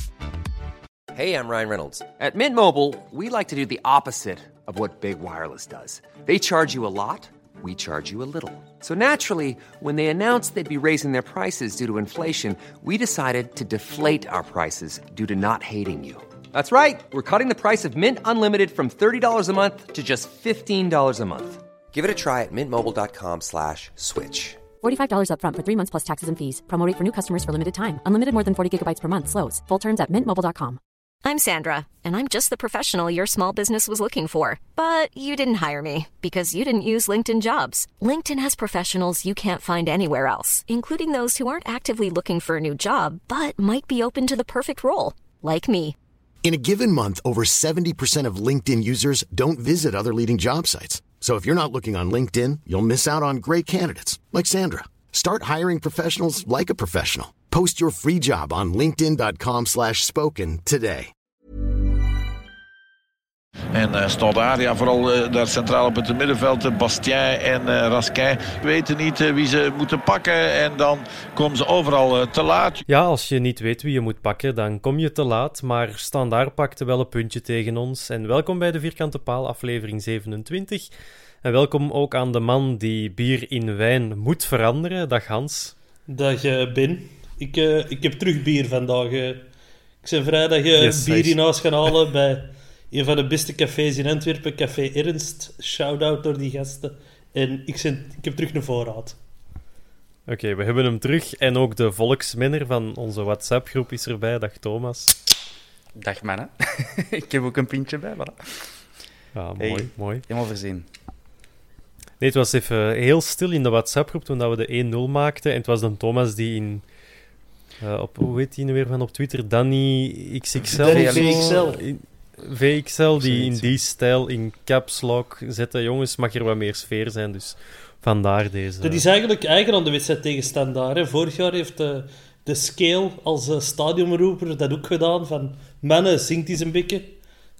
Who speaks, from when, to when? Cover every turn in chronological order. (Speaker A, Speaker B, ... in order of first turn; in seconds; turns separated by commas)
Speaker A: 1.1-24.7, Speaker B: 24.8-30.8, Speaker C: 31.2-46.0, Speaker D: 46.4-61.1, Speaker E: 63.7-72.8, Speaker F: 72.8-80.9, Speaker F: 81.4-85.7, Speaker G: 86.1-89.5, Speaker G: 90.0-99.2, Speaker F: 90.8-91.4, Speaker F: 100.3-105.1, Speaker H: 106.0-108.8, Speaker F: 109.3-110.2, Speaker H: 109.6-110.9, Speaker F: 112.2-116.8, Speaker F: 117.8-129.0, Speaker H: 120.7-121.8, Speaker G: 120.7-121.8, Speaker H: 123.2-123.7, Speaker G: 128.8-137.2